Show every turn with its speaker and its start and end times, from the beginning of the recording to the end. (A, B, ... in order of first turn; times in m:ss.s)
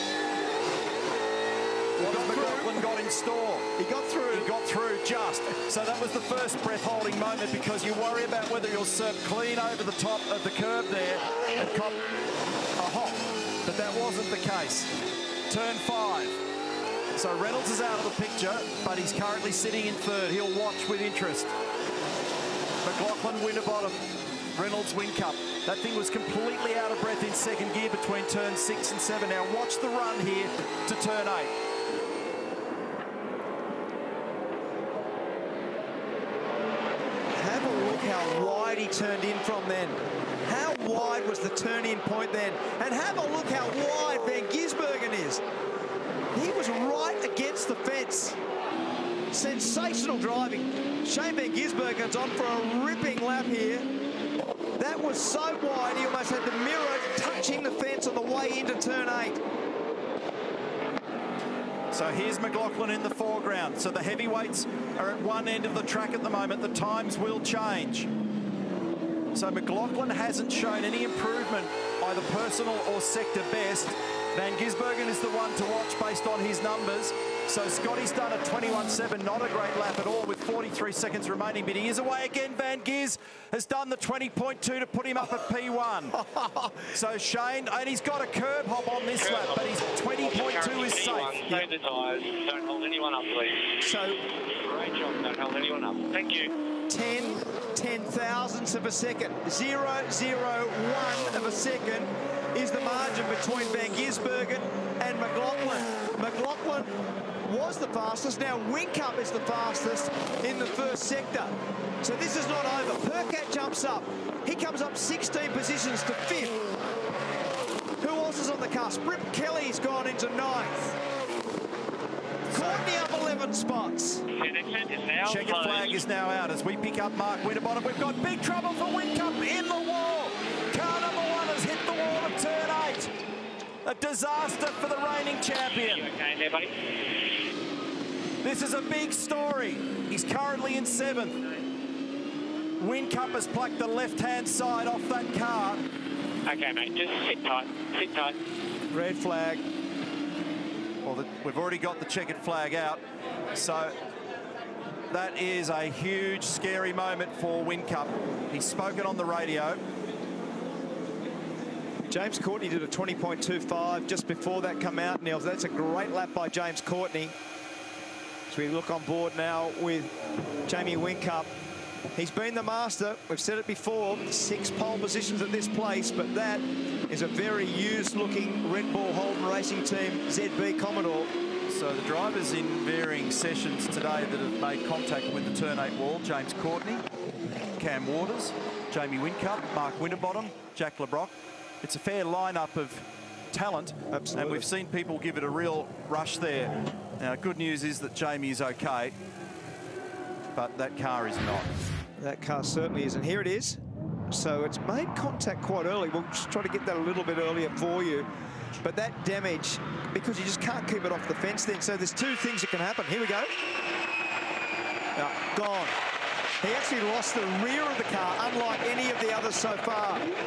0:02.0-0:02.9 A
0:02.0-0:03.7 B
0:03.8-0:04.5 A
0:04.3-0:12.0 B
0:12.8-0:14.9 B
0:15.5-0:16.4 B
0:17.1-0:21.5 B
0:22.8-0:31.5 B
0:37.3-0:45.4 A
0:46.3-0:48.4 A
0:49.3-0:53.9 A
0:54.8-0:59.4 A
1:01.9-1:08.1 B
1:09.3-1:26.2 B
1:26.2-1:26.8 A
1:26.9-1:31.7 B
1:29.2-1:29.6 C
1:30.2-1:33.7 C
1:33.8-1:34.2 A
1:34.6-1:36.5 C
1:36.9-1:56.6 A
1:58.0-2:01.0 A
2:02.5-2:04.2 A
2:02.5-2:02.8 B
2:04.3-2:05.9 C
2:05.2-2:13.1 B
2:13.8-2:16.1 B
2:15.9-2:16.7 C
2:18.4-2:21.4 B
2:22.8-2:25.8 B
2:26.4-2:28.3 C
2:28.9-2:29.6 A
2:31.0-2:33.0 B
2:33.5-2:34.0 B
2:35.1-2:39.8 B
2:42.1-2:47.3 A
2:48.5-2:50.1 A
2:50.6-2:51.5 A
2:52.1-3:01.3 A
3:01.7-3:07.0 B
3:07.8-3:19.1 B
3:14.1-3:14.7 A
3:20.5-3:21.8 B
3:22.2-3:28.3 A
3:28.8-3:33.5 A
3:35.2-3:36.0 A
3:36.6-3:40.3 A